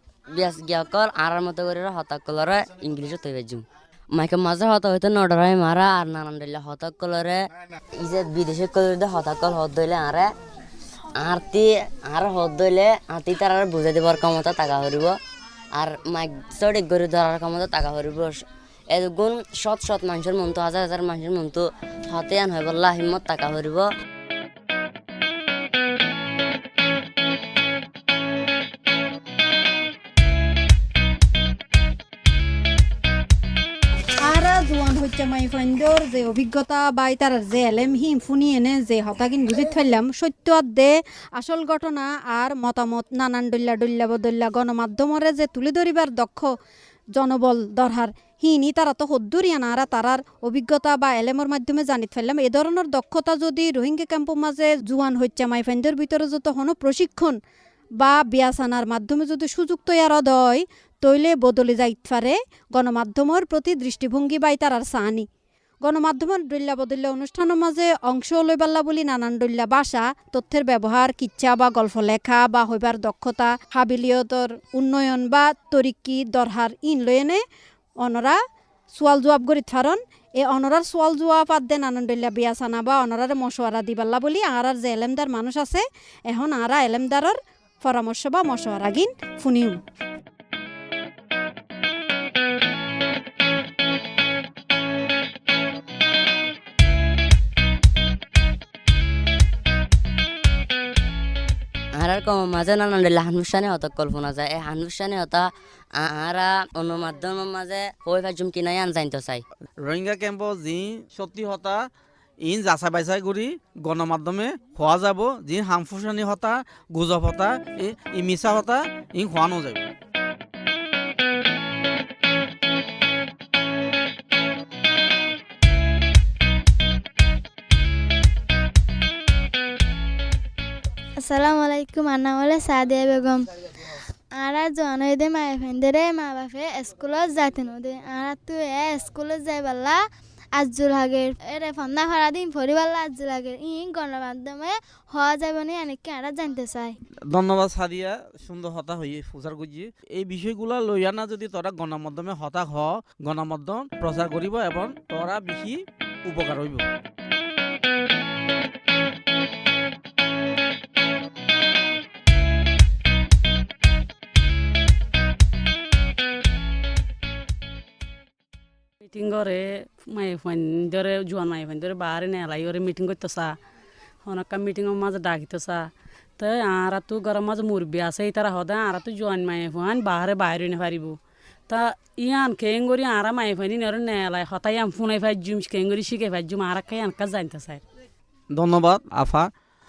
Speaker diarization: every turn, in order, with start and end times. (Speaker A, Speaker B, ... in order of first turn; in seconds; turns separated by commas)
Speaker A: 0.3-7.5, Speaker A: 8.0-10.3, Speaker A: 11.1-15.2, Speaker A: 15.7-23.9, Speaker B: 34.2-46.5, Speaker B: 47.1-57.4, Speaker B: 58.0-65.3, Speaker B: 65.8-77.4, Speaker B: 78.0-78.4, Speaker B: 78.9-89.8, Speaker A: 102.0-109.4, Speaker C: 109.8-111.9, Speaker C: 112.4-119.9, Speaker D: 131.2-133.5, Speaker D: 134.3-140.0, Speaker D: 140.5-146.9, Speaker C: 147.3-156.9, Speaker E: 169.1-173.5, Speaker E: 174.2-175.8, Speaker E: 176.4-181.2, Speaker E: 181.7-187.8, Speaker C: 188.5-189.5